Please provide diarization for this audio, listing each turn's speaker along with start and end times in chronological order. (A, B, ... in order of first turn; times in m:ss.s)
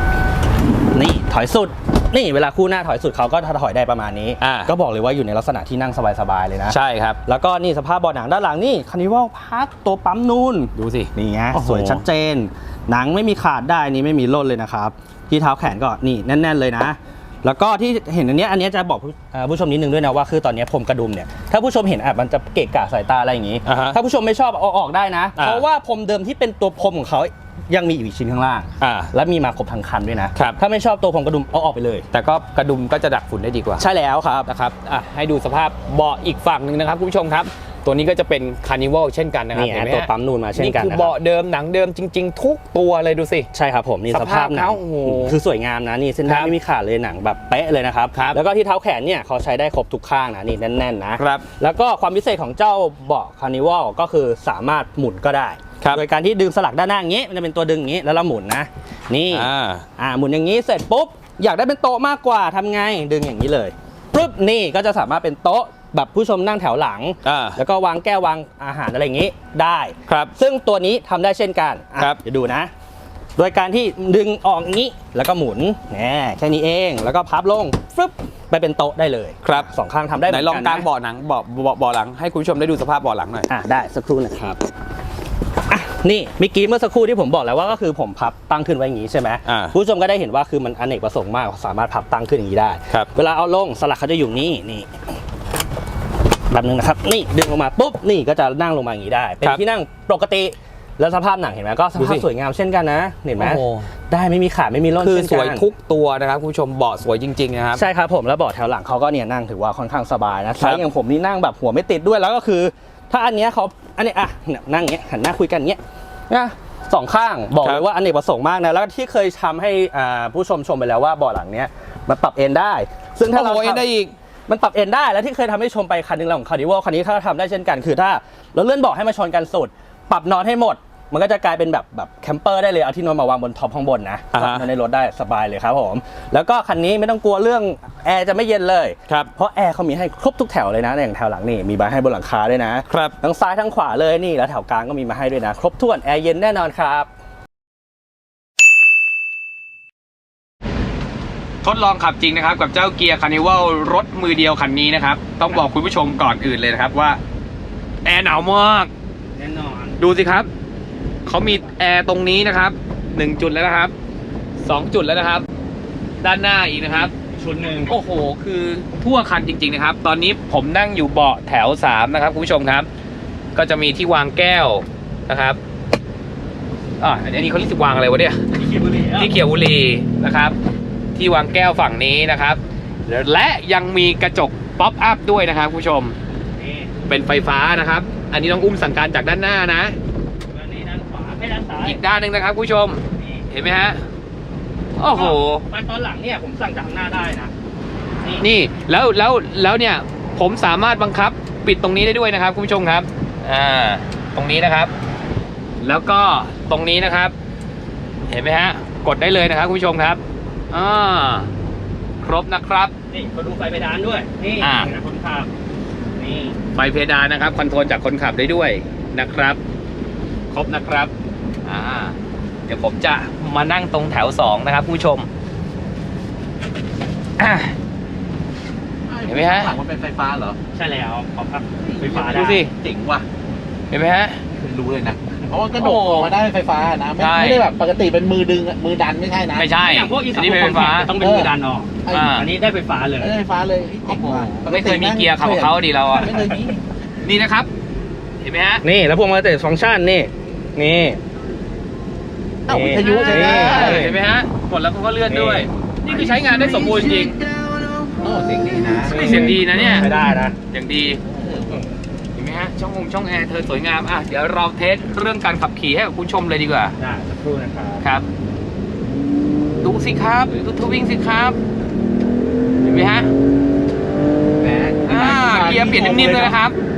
0:00.9-0:32.0 A
0:04.4-0:04.7 B
0:06.7-0:07.2 B
0:10.8-0:12.0 B
0:23.6-0:24.0 B
0:25.4-0:25.6 B
0:28.8-0:29.1 B
0:32.1-0:33.8 B
0:33.8-0:34.5 A
0:34.4-0:43.5 B
0:39.5-0:41.2 A
0:43.5-1:12.7 A
0:44.1-0:45.4 B
0:46.2-0:46.5 B
0:48.1-0:48.4 B
0:51.2-0:51.5 B
0:59.3-0:59.8 B
1:07.2-1:07.6 B
1:10.1-1:10.3 B
1:13.4-1:20.9 A
1:19.4-1:19.7 B
1:20.2-1:23.5 B
1:23.5-1:24.6 A
1:25.7-1:34.9 A
1:29.4-1:29.8 B
1:36.5-1:45.7 A
1:42.0-1:42.2 B
1:43.4-1:43.9 B
1:45.0-1:47.8 B
1:47.8-2:03.9 A
1:50.6-1:50.8 B
2:03.2-2:04.1 B
2:04.5-2:27.1 A
2:14.3-2:14.7 B
2:22.9-2:23.2 B
2:31.6-2:37.2 B
2:38.0-2:38.9 B
2:39.4-2:40.0 A
2:40.0-2:40.5 B
2:41.2-2:43.9 B
2:44.6-2:45.4 B
2:46.2-2:47.1 B
2:46.9-2:47.9 A
2:47.9-2:52.9 B
2:53.5-2:55.6 B
2:57.0-2:58.5 B
2:58.6-2:59.3 A
2:59.1-3:00.5 B
3:01.2-3:06.2 B
3:06.5-3:06.9 A
3:07.1-3:10.0 B
3:10.5-3:12.0 A
3:11.8-3:14.0 B
3:13.1-3:13.5 A
3:15.0-3:15.6 B
3:15.1-3:17.5 A
3:18.4-3:24.9 B
3:25.8-3:27.3 B
3:28.3-3:31.5 B
3:32.2-3:32.9 B
3:33.1-3:35.5 A
3:34.6-3:34.9 B
3:36.2-3:36.6 A
3:36.7-3:39.6 B
3:40.5-3:41.1 B
3:41.6-3:42.1 B
3:42.7-3:45.3 B
3:47.4-3:47.7 B
3:49.1-3:50.6 C
3:49.3-3:49.7 B
3:50.7-3:52.6 A
3:51.8-3:53.2 C
3:52.2-3:52.7 B
3:53.9-3:54.4 B
3:54.5-3:59.7 C
3:55.8-3:56.4 B
3:57.2-3:57.7 B
3:59.6-4:01.1 B
3:59.8-4:03.3 A
4:01.2-4:01.5 C
4:02.1-4:02.4 C
4:02.1-4:02.5 B
4:03.2-4:06.8 C
4:04.1-4:06.4 B
4:07.2-4:07.7 B
4:08.4-4:08.8 B
4:08.8-4:11.2 A
4:12.7-4:14.1 C
4:12.7-4:14.2 A
4:12.9-4:17.4 B
4:15.3-4:15.7 A
4:16.1-4:20.2 C
4:19.1-4:20.1 B
4:19.1-4:20.6 A
4:20.7-4:21.2 B
4:21.2-4:21.8 C
4:22.4-4:27.0 B
4:27.0-4:28.0 A
4:29.8-4:31.6 B
4:32.8-4:33.3 B
4:34.6-4:36.6 C
4:35.1-4:36.8 B